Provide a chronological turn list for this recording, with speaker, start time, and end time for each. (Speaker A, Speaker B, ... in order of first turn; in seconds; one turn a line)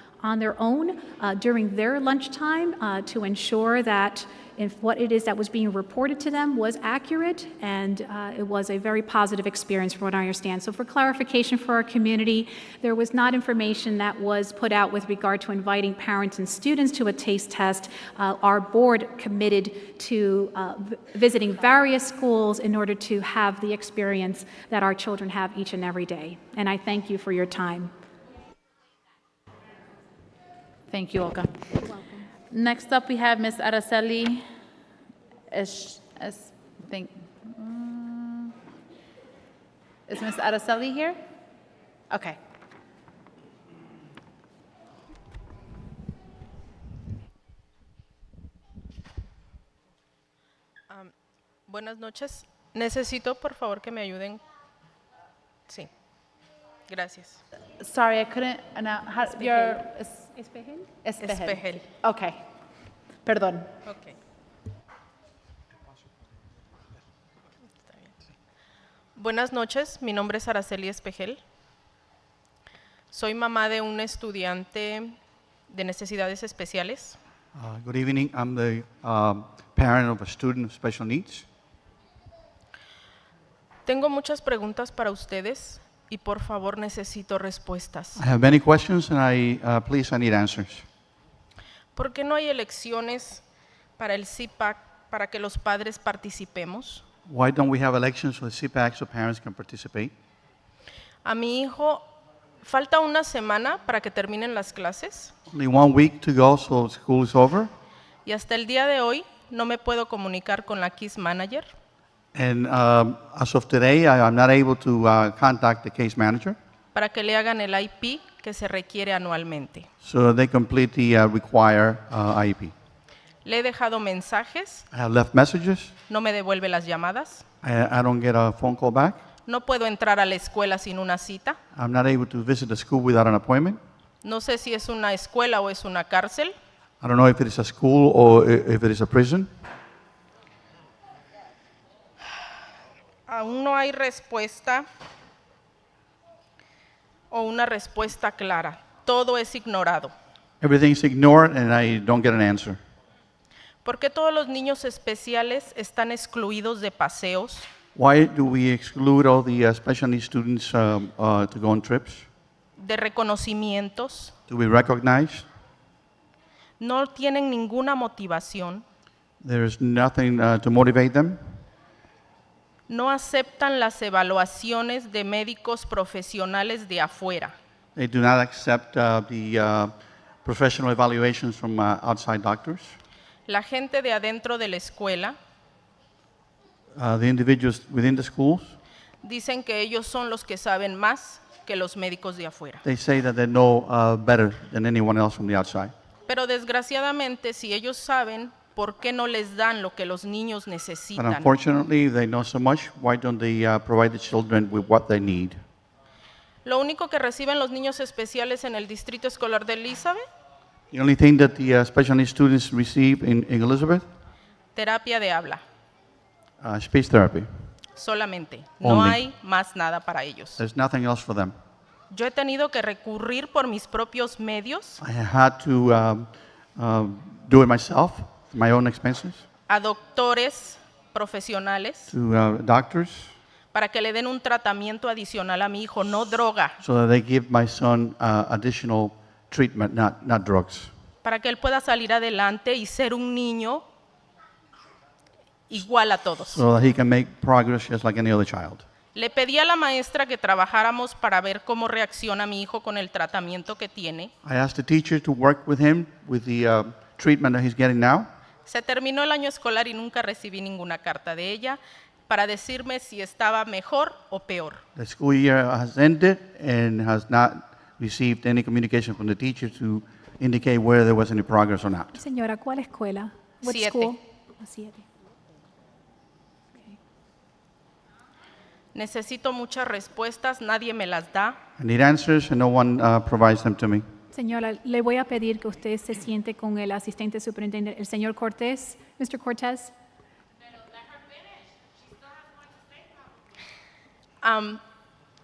Speaker A: 0.2-27.9
Speaker B: 30.9-31.8
Speaker B: 32.4-34.5
Speaker B: 35.5-38.6
Speaker B: 40.1-41.2
Speaker B: 42.1-42.4
Speaker C: 50.9-51.1
Speaker C: 51.7-54.4
Speaker C: 56.9-57.4
Speaker B: 57.8-62.4
Speaker C: 59.4-59.7
Speaker C: 61.2-61.9
Speaker B: 63.2-63.8
Speaker C: 63.9-64.2
Speaker C: 67.8-68.1
Speaker C: 69.2-71.4
Speaker C: 73.1-75.2
Speaker C: 75.7-77.2
Speaker D: 77.5-81.5
Speaker C: 83.8-88.2
Speaker D: 88.2-90.9
Speaker C: 92.0-93.4
Speaker C: 94.0-97.0
Speaker D: 97.3-100.1
Speaker C: 101.2-102.1
Speaker C: 102.6-105.3
Speaker D: 105.5-107.7
Speaker C: 108.2-111.7
Speaker D: 112.3-116.6
Speaker C: 116.9-119.9
Speaker D: 120.0-122.7
Speaker C: 123.4-124.9
Speaker D: 124.9-125.9
Speaker C: 126.1-127.5
Speaker D: 127.6-129.2
Speaker C: 129.5-131.6
Speaker D: 131.7-133.8
Speaker C: 134.2-136.5
Speaker D: 137.0-139.5
Speaker C: 143.3-144.9
Speaker C: 147.3-150.1
Speaker D: 150.6-152.8
Speaker C: 153.8-157.7
Speaker D: 158.0-162.3
Speaker C: 162.8-164.3
Speaker D: 164.5-165.5
Speaker C: 166.8-168.8
Speaker D: 169.4-171.4
Speaker C: 172.9-177.6
Speaker D: 178.0-179.9
Speaker D: 180.4-183.0
Speaker C: 183.5-185.4
Speaker D: 187.0-188.8
Speaker C: 189.2-192.8
Speaker D: 192.8-195.9
Speaker C: 196.3-201.5
Speaker D: 201.2-205.6
Speaker C: 206.7-210.2
Speaker D: 210.9-214.1
Speaker C: 214.8-215.6
Speaker D: 216.6-217.5
Speaker C: 218.0-220.6
Speaker D: 218.8-219.2
Speaker D: 220.6-221.5
Speaker C: 222.1-225.0
Speaker D: 225.0-229.4
Speaker C: 229.7-232.1
Speaker D: 232.1-233.3
Speaker C: 233.7-236.8
Speaker D: 236.8-240.9
Speaker C: 241.2-243.8
Speaker C: 245.7-246.6
Speaker D: 246.5-248.8
Speaker C: 249.2-254.3
Speaker D: 254.4-258.3
Speaker C: 258.7-264.8
Speaker D: 265.0-272.1
Speaker A: 272.1-275.1
Speaker C: 273.6-274.2
Speaker C: 278.9-281.6
Speaker D: 281.8-284.0
Speaker A: 284.3-289.9
Speaker C: 294.4-294.8